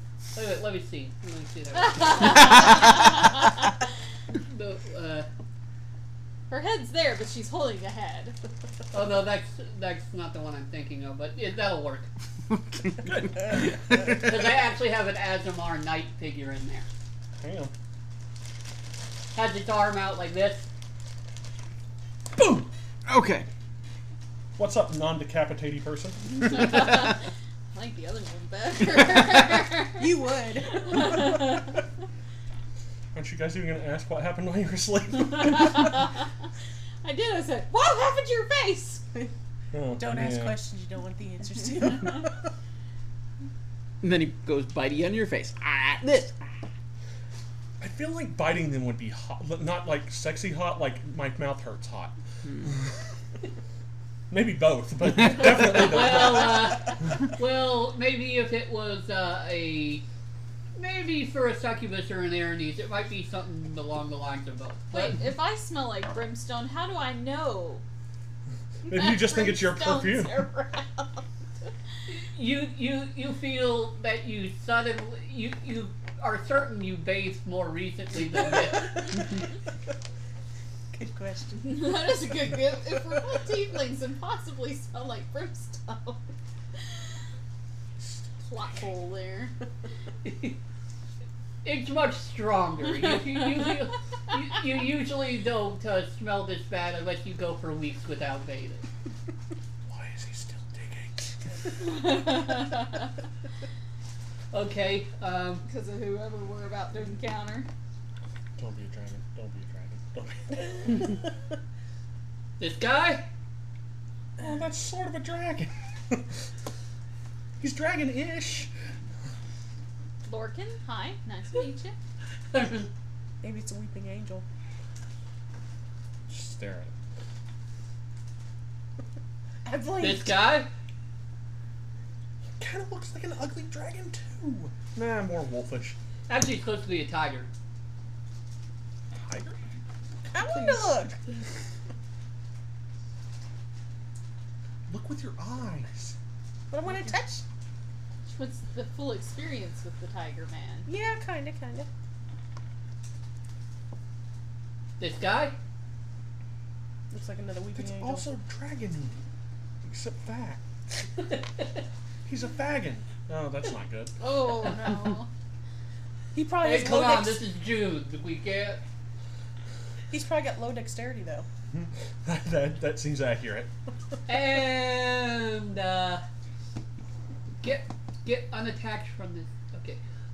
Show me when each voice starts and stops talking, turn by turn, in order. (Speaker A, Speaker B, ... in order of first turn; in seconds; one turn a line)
Speaker A: 0.3-2.9
Speaker B: 1.8-2.8
Speaker A: 4.3-5.3
Speaker B: 6.5-8.4
Speaker A: 8.9-12.1
Speaker C: 12.5-13.1
Speaker D: 13.0-13.7
Speaker A: 13.9-16.9
Speaker D: 17.4-17.7
Speaker A: 19.3-20.7
Speaker C: 23.1-23.5
Speaker D: 24.6-26.5
Speaker B: 26.4-27.2
Speaker B: 27.7-30.1
Speaker E: 30.0-31.3
Speaker B: 30.8-31.7
Speaker D: 33.1-35.9
Speaker B: 37.0-39.0
Speaker D: 39.7-40.6
Speaker E: 40.0-42.4
Speaker C: 44.0-46.4
Speaker D: 47.8-52.9
Speaker D: 54.3-57.0
Speaker A: 55.5-60.0
Speaker A: 60.8-65.2
Speaker B: 64.9-67.8
Speaker D: 68.9-70.5
Speaker B: 68.9-71.2
Speaker A: 72.1-79.1
Speaker E: 80.9-82.0
Speaker B: 81.6-86.2
Speaker B: 88.4-89.5
Speaker A: 90.2-90.6
Speaker A: 91.6-98.8
Speaker D: 99.9-101.3
Speaker B: 101.9-102.9
Speaker A: 104.5-105.6
Speaker B: 105.6-107.7
Speaker D: 108.6-111.2
Speaker A: 112.6-113.2
Speaker D: 114.4-116.3
Speaker D: 117.6-118.7
Speaker B: 120.2-122.0
Speaker A: 122.5-122.9
Speaker E: 123.4-124.4
Speaker D: 126.3-126.9
Speaker E: 129.6-130.4
Speaker A: 130.0-130.7
Speaker D: 132.6-136.0
Speaker A: 136.3-137.5
Speaker D: 139.1-139.6
Speaker E: 140.3-141.2
Speaker D: 144.9-146.2
Speaker E: 146.7-147.4
Speaker B: 148.2-150.9
Speaker E: 150.8-151.9
Speaker A: 155.0-155.6
Speaker E: 157.1-158.3
Speaker D: 157.8-159.2
Speaker D: 159.8-160.6
Speaker D: 162.2-164.1
Speaker B: 164.2-165.3
Speaker E: 166.3-167.4
Speaker A: 166.6-168.8
Speaker E: 170.1-171.4
Speaker D: 171.7-173.7
Speaker A: 174.3-176.2
Speaker A: 177.6-180.0